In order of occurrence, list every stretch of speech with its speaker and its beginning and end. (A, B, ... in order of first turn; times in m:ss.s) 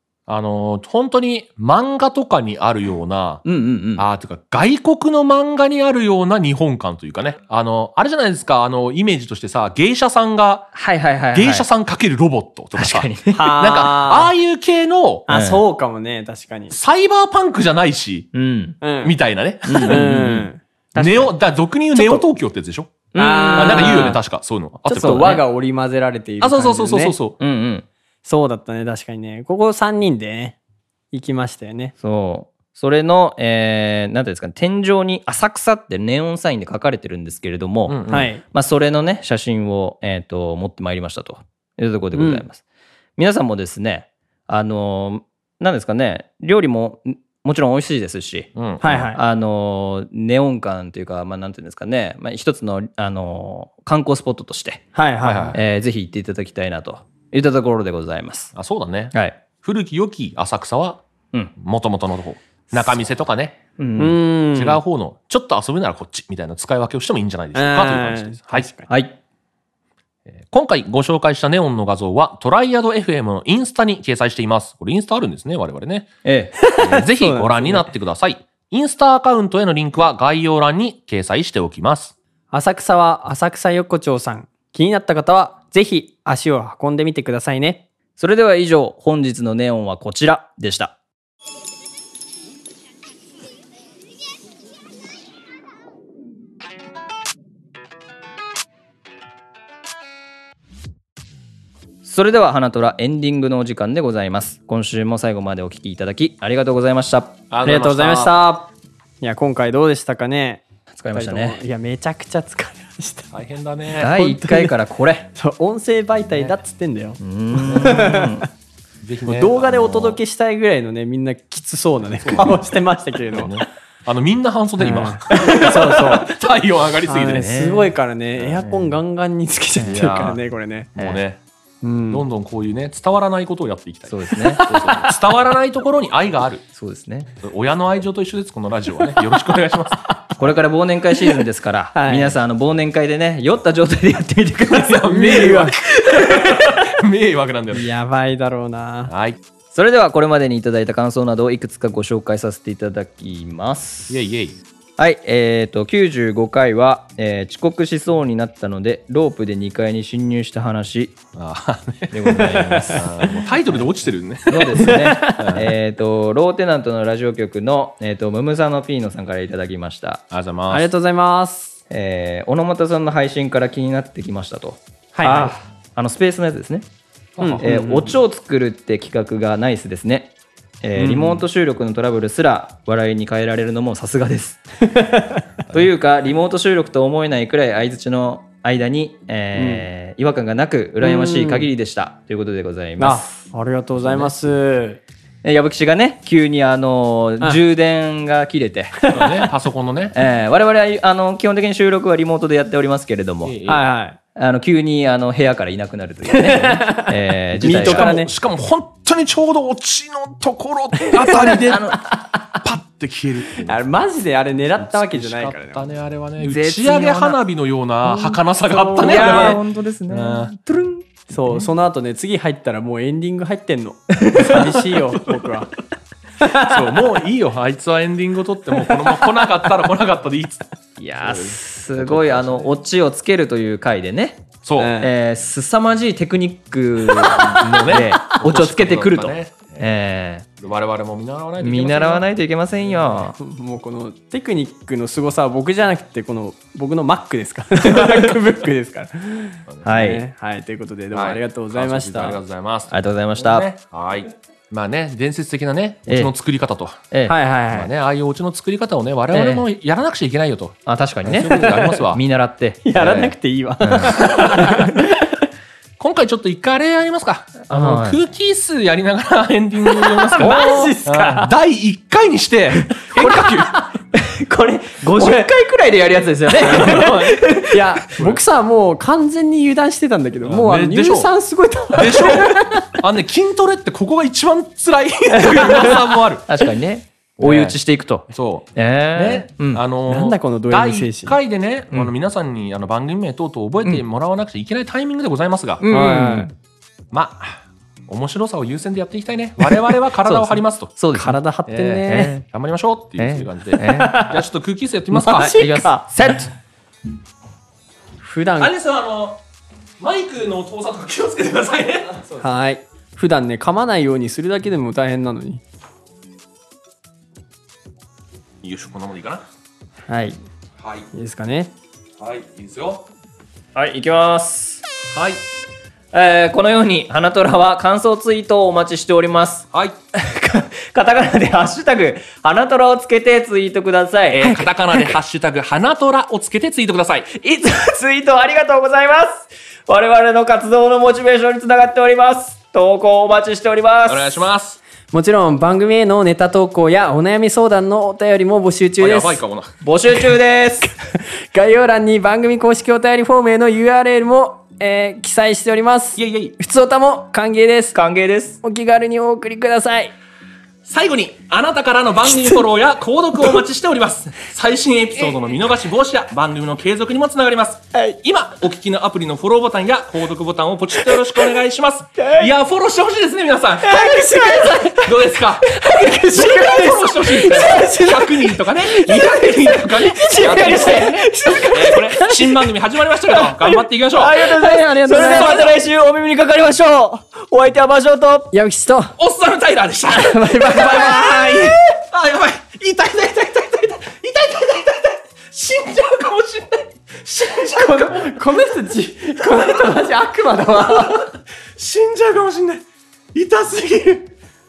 0:00.3-0:03.4 A
0:03.4-0:04.0 B
0:04.0-0:10.7 A
0:10.7-0:11.7 B
0:11.3-0:15.3 A
0:12.8-0:13.5 B
0:13.3-0:14.3 C
0:15.3-0:16.8 C
0:15.3-0:15.6 B
0:16.7-0:18.3 A
0:18.3-0:18.8 B
0:18.8-0:19.2 C
0:19.0-0:25.4 A
0:19.7-0:20.4 B
0:19.8-0:20.6 C
0:20.9-0:21.3 B
0:22.0-0:22.2 B
0:23.1-0:24.2 B
0:23.2-0:24.2 C
0:24.9-0:27.2 C
0:24.9-0:25.4 B
0:26.4-0:27.4 A
0:27.4-0:27.9 B
0:28.2-0:30.6 C
0:31.1-0:31.9 C
0:32.0-0:42.6 B
0:37.9-0:38.3 A
0:38.1-0:38.4 C
0:42.1-0:42.4 C
0:43.2-0:48.5 B
0:48.6-0:49.1 A
0:48.8-0:49.2 C
0:49.1-0:54.9 B
0:55.0-0:55.6 C
0:55.2-0:55.6 A
0:55.5-0:58.5 B
0:58.6-1:01.0 A
0:59.1-0:59.4 B
1:01.6-1:03.6 A
1:03.8-1:04.2 B
1:04.0-1:04.8 C
1:04.5-1:08.7 A
1:07.6-1:08.9 C
1:08.9-1:09.2 B
1:10.3-1:16.1 A
1:16.2-1:16.6 B
1:16.6-1:17.9 C
1:16.6-1:22.1 A
1:22.5-1:27.9 C
1:28.2-1:31.0 B
1:42.0-1:47.4 B
1:47.5-1:48.4 A
1:47.6-1:53.3 C
1:50.9-1:51.6 B
1:53.3-1:54.1 A
1:54.0-1:55.3 B
1:54.0-1:54.8 C
1:55.4-1:58.5 C
1:57.2-1:58.5 B
1:57.8-1:58.1 A
1:59.0-2:00.2 A
1:59.2-2:03.6 C
2:02.2-2:02.6 A
2:03.3-2:07.6 A
2:04.8-2:06.4 C
2:07.0-2:10.9 C
2:07.3-2:07.9 B
2:08.4-2:08.9 A
2:09.8-2:10.4 A
2:11.0-2:11.4 A
2:11.8-2:12.2 C
2:12.1-2:16.6 A
2:14.1-2:15.0 B
2:14.6-2:15.2 C
2:16.7-2:17.3 B
2:17.4-2:20.1 A
2:20.4-2:25.1 B
2:22.0-2:22.4 C
2:24.7-2:27.9 A
2:25.0-2:26.9 C
2:27.7-2:29.1 C
2:29.1-2:29.4 A
2:29.7-2:34.2 B
2:34.1-2:34.6 A
2:35.0-2:41.2 B
2:41.4-2:45.7 A
2:42.1-2:43.8 B
2:42.5-2:43.1 C
2:44.5-2:50.2 B
2:44.9-2:45.5 C
2:50.3-2:50.9 A
2:50.7-2:51.8 C
2:51.9-2:56.9 B
2:55.1-2:55.6 C
2:57.4-2:57.6 A
2:57.4-2:58.2 C
2:57.6-3:04.6 B
3:01.0-3:01.4 C
3:04.9-3:05.4 C
3:05.7-3:13.4 B
3:09.6-3:09.9 C
3:11.0-3:11.7 C
3:13.0-3:15.0 C
3:15.4-3:19.1 B
3:19.0-3:19.5 C
3:19.1-3:20.2 A
3:20.2-3:23.6 B
3:23.4-3:23.8 A
3:23.7-3:24.2 C
3:24.4-3:28.2 B
3:26.3-3:28.3 C
3:27.6-3:32.0 A
3:31.2-3:31.7 C
3:31.4-3:32.6 B
3:32.6-3:33.8 A
3:33.6-3:35.9 C
3:34.8-3:40.5 A
3:36.4-3:37.4 B
3:38.1-3:38.4 B
3:38.6-3:39.6 C
3:39.0-3:41.1 B
3:41.3-3:45.8 C
3:44.2-3:44.7 B
3:46.4-3:47.0 C
3:46.5-3:50.6 A
3:51.0-3:54.5 B
3:51.2-3:52.7 A
3:54.6-3:55.0 A
3:54.8-3:55.1 C
3:55.0-4:00.5 B
3:57.4-3:59.9 A
4:00.6-4:02.3 A
4:01.6-4:03.4 B
4:03.4-4:12.4 C
4:09.8-4:10.2 B
4:11.1-4:17.1 A
4:12.9-4:13.7 B
4:16.1-4:16.3 B
4:17.3-4:17.9 C
4:17.7-4:22.2 A
4:19.3-4:19.7 B
4:20.9-4:24.3 B
4:21.4-4:22.0 C
4:22.8-4:25.4 C
4:24.2-4:24.9 A
4:26.0-4:33.8 A
4:27.7-4:28.2 B
4:30.1-4:31.5 C
4:33.1-4:38.3 B
4:35.2-4:35.5 C
4:36.4-4:42.9 C
4:40.4-4:41.3 A
4:41.9-4:46.4 A
4:45.5-4:46.0 C
4:46.5-4:49.8 B
4:47.4-4:47.8 A
4:48.3-4:55.8 A
4:50.1-4:51.4 C
4:55.8-4:56.5 B
4:55.9-4:56.5 C
4:57.1-5:01.0 A
5:00.2-5:01.4 B
5:01.1-5:02.3 C
5:01.7-5:05.6 A
5:02.1-5:02.4 B
5:03.2-5:04.4 B
5:03.8-5:04.4 C
5:05.2-5:06.0 C
5:05.3-5:06.5 B
5:08.2-5:08.7 C
5:08.6-5:09.4 A
5:10.0-5:12.2 A
5:12.4-5:15.6 C
5:18.6-5:19.4 A
5:20.1-5:20.4 C
5:20.8-5:21.1 A
5:21.1-5:21.7 C
5:22.2-5:23.1 A
5:23.8-5:24.8 B
5:25.1-5:25.4 A
5:26.1-5:35.1 B
5:29.7-5:30.0 A
5:34.3-5:37.3 A
5:37.4-5:44.4 B
5:44.1-5:44.8 A
5:45.1-5:49.4 C
5:49.0-5:49.7 A
5:49.8-5:50.9 B
5:51.2-5:58.0 C
5:56.2-5:56.6 A
5:57.9-5:58.6 B
5:58.6-6:00.1 C
6:00.8-6:24.5 A
6:12.2-6:12.5 C
6:13.8-6:22.7 C
6:20.4-6:21.3 B
6:23.3-6:25.7 C
6:24.2-6:28.5 B
6:25.2-6:25.7 A
6:28.5-6:29.2 C
6:29.2-6:38.4 A
6:30.1-6:31.9 C
6:37.6-6:41.3 C
6:39.4-6:40.1 A
6:40.7-6:44.3 A